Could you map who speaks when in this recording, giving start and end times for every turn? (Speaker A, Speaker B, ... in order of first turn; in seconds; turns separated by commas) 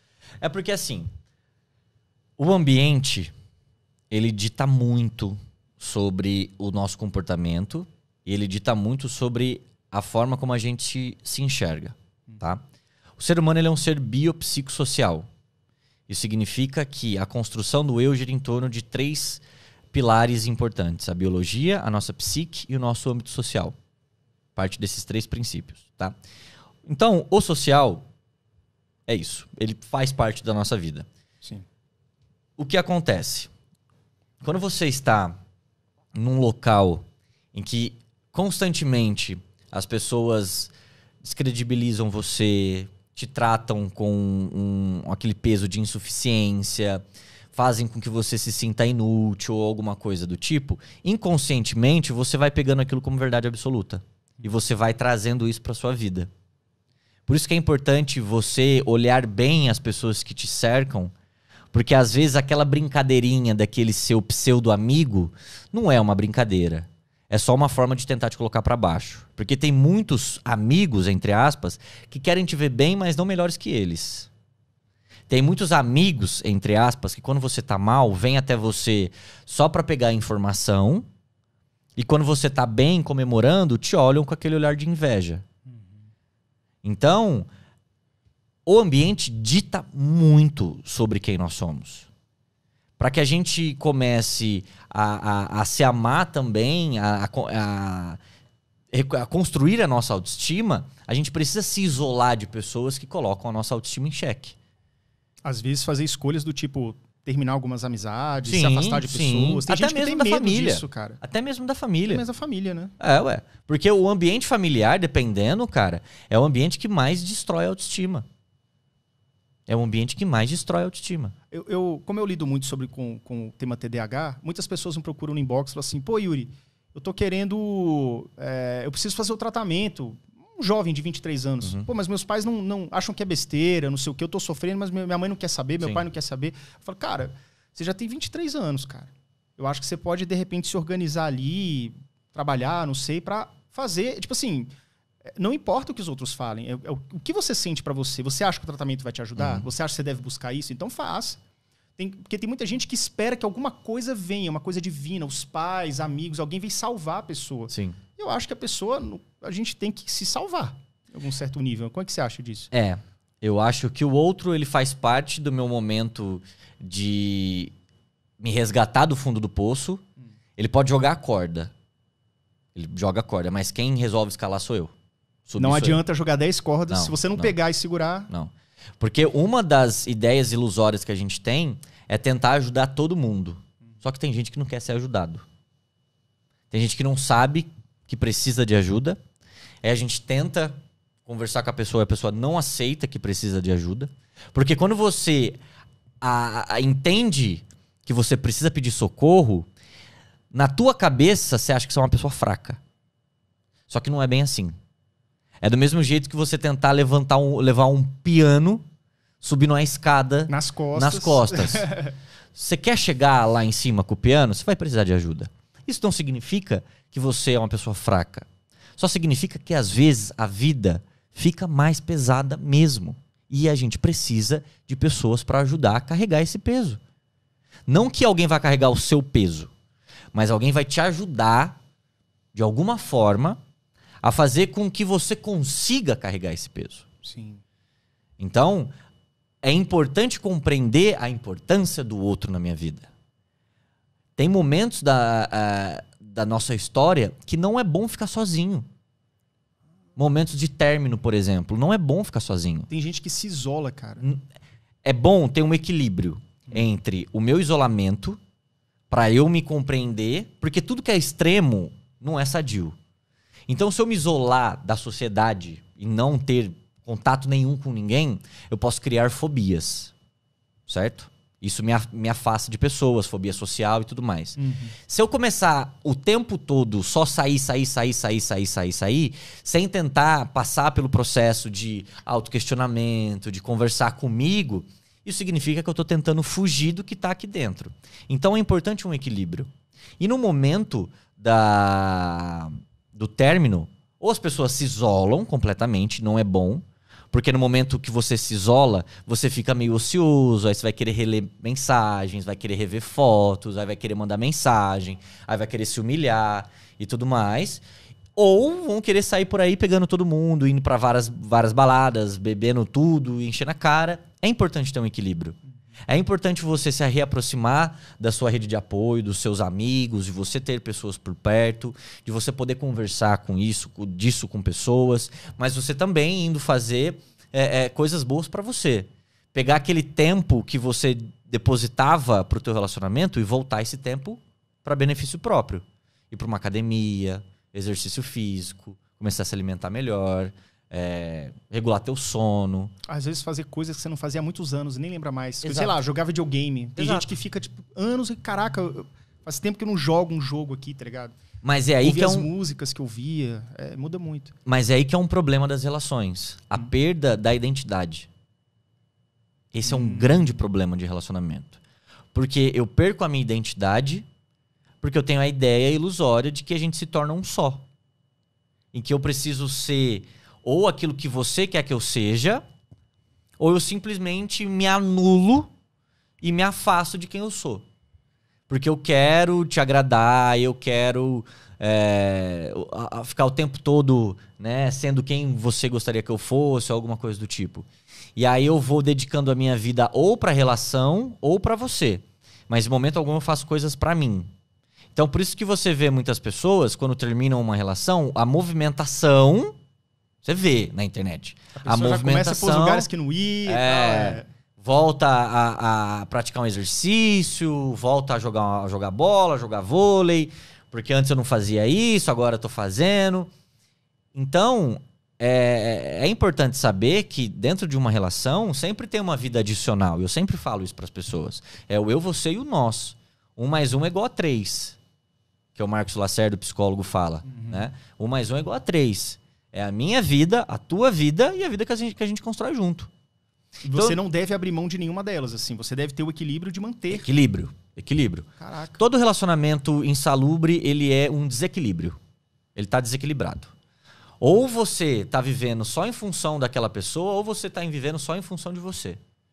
Speaker A: 0.4-1.1, Speaker A: 2.4-3.3, Speaker A: 4.1-12.6, Speaker A: 13.2-15.3, Speaker A: 16.1-23.8, Speaker A: 24.6-26.2, Speaker A: 26.9-28.1, Speaker A: 29.1-31.1, Speaker A: 32.6-33.5, Speaker A: 34.4-35.4, Speaker A: 36.1-37.0, Speaker A: 37.5-56.3, Speaker A: 57.3-61.1, Speaker A: 61.7-74.3, Speaker A: 75.3-81.0, Speaker A: 82.0-85.4, Speaker A: 86.8-87.5, Speaker A: 88.7-92.1, Speaker A: 93.0-98.2, Speaker A: 98.9-104.6, Speaker B: 105.5-111.2, Speaker A: 108.5-112.2, Speaker B: 112.1-113.0, Speaker A: 113.0-118.3, Speaker A: 119.7-121.3, Speaker B: 121.5-144.7, Speaker B: 145.4-151.4, Speaker A: 149.4-149.7, Speaker B: 152.0-162.7, Speaker A: 157.7-158.0, Speaker A: 162.7-167.7, Speaker A: 168.4-170.0, Speaker A: 170.6-171.7, Speaker A: 172.8-174.9, Speaker A: 175.5-176.0, Speaker B: 175.6-178.3, Speaker A: 176.9-177.6, Speaker A: 178.3-185.4, Speaker A: 186.7-189.2, Speaker A: 189.8-195.6, Speaker A: 196.2-199.7, Speaker A: 200.5-202.8, Speaker A: 203.9-204.8, Speaker A: 205.6-208.8, Speaker A: 209.4-211.9, Speaker B: 210.5-212.1, Speaker A: 212.6-227.0, Speaker A: 227.9-229.7, Speaker A: 230.3-231.8, Speaker A: 232.5-233.6, Speaker A: 234.2-237.1, Speaker B: 237.2-237.6, Speaker A: 238.4-238.9, Speaker A: 239.6-243.1, Speaker A: 244.4-248.9, Speaker A: 250.2-252.9, Speaker B: 252.9-254.2, Speaker A: 255.0-258.4, Speaker A: 259.1-263.0, Speaker A: 263.7-270.1, Speaker A: 270.9-307.8, Speaker B: 274.6-274.9, Speaker A: 308.4-315.6, Speaker A: 316.1-342.9, Speaker B: 343.1-351.4, Speaker A: 345.6-345.9, Speaker A: 347.0-347.3, Speaker A: 351.6-352.5, Speaker B: 352.0-354.5, Speaker A: 354.7-358.3, Speaker A: 359.7-361.8, Speaker B: 359.9-360.4, Speaker A: 362.3-364.2, Speaker A: 365.0-367.9, Speaker A: 368.9-372.6, Speaker A: 373.6-375.7, Speaker A: 376.4-377.9, Speaker A: 378.7-394.5, Speaker A: 395.1-399.7, Speaker A: 400.4-403.1, Speaker B: 401.8-404.5, Speaker A: 403.7-413.5, Speaker A: 414.3-425.0, Speaker A: 425.8-433.1, Speaker B: 427.5-427.9, Speaker B: 433.8-437.3, Speaker A: 433.9-434.2, Speaker A: 437.1-442.2, Speaker B: 438.6-439.0, Speaker A: 442.8-443.7, Speaker A: 444.4-449.2